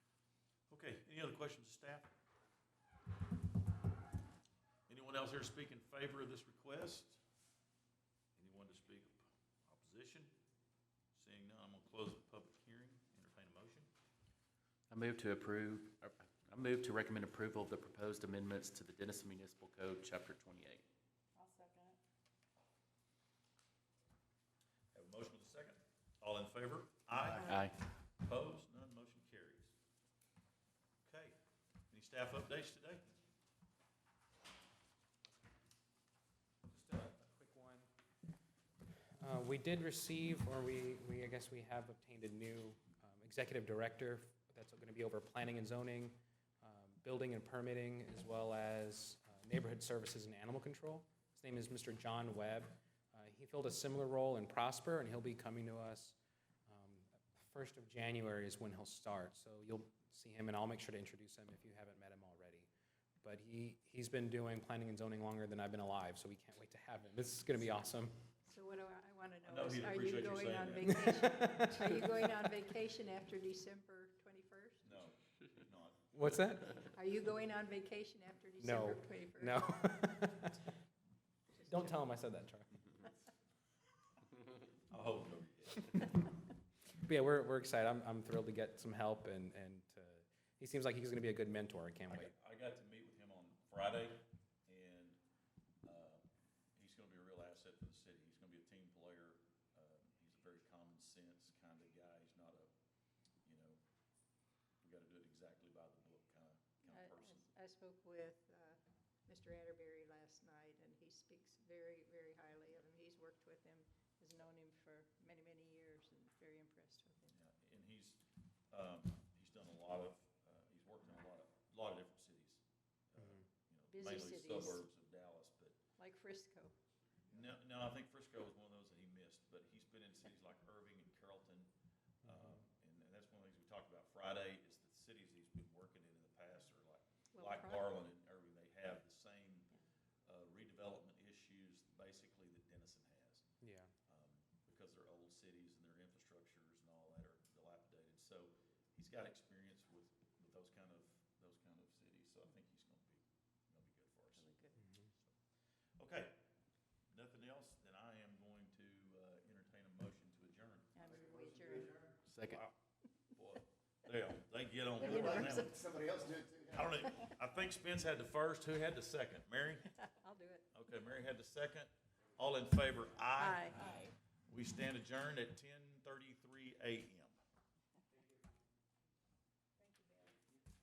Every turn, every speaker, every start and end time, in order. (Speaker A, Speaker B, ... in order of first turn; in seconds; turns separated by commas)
Speaker A: 0.7-2.1, Speaker A: 4.9-7.2, Speaker A: 8.3-10.3, Speaker A: 11.1-13.9, Speaker B: 14.9-20.8, Speaker C: 21.4-22.0, Speaker A: 24.9-27.5, Speaker B: 27.3-27.8, Speaker A: 28.2-29.7, Speaker A: 31.0-31.4, Speaker A: 31.9-33.0, Speaker D: 36.7-37.9, Speaker D: 39.2-56.2, Speaker D: 56.7-62.7, Speaker D: 63.2-68.1, Speaker C: 68.5-74.8, Speaker A: 69.4-71.3, Speaker D: 71.1-72.1, Speaker A: 74.8-76.2, Speaker D: 76.1-76.8, Speaker C: 76.8-79.9, Speaker D: 78.6-80.6, Speaker D: 81.6-82.8, Speaker A: 84.9-86.1, Speaker D: 87.0-92.3, Speaker A: 92.1-95.2, Speaker A: 95.8-96.2, Speaker A: 96.8-102.7, Speaker A: 103.4-103.8, Speaker A: 104.8-107.5, Speaker C: 106.9-117.3, Speaker A: 117.3-125.8, Speaker D: 123.2-123.4, Speaker C: 123.9-124.8, Speaker C: 126.0-126.7, Speaker A: 127.3-131.7, Speaker A: 132.2-139.7, Speaker D: 132.2-132.6, Speaker C: 137.3-137.9, Speaker A: 140.2-143.4, Speaker D: 143.6-143.9, Speaker A: 144.1-154.5, Speaker C: 154.3-154.8, Speaker D: 154.8-155.0, Speaker A: 156.0-156.3, Speaker A: 157.1-161.0, Speaker C: 160.9-162.1, Speaker E: 161.1-162.2, Speaker B: 162.3-162.6, Speaker A: 162.5-162.7, Speaker A: 163.3-165.8, Speaker C: 165.0-165.8, Speaker E: 165.0-166.8, Speaker A: 166.4-169.9, Speaker C: 170.0-170.7, Speaker A: 170.7-177.3, Speaker C: 173.3-174.1, Speaker C: 179.8-180.4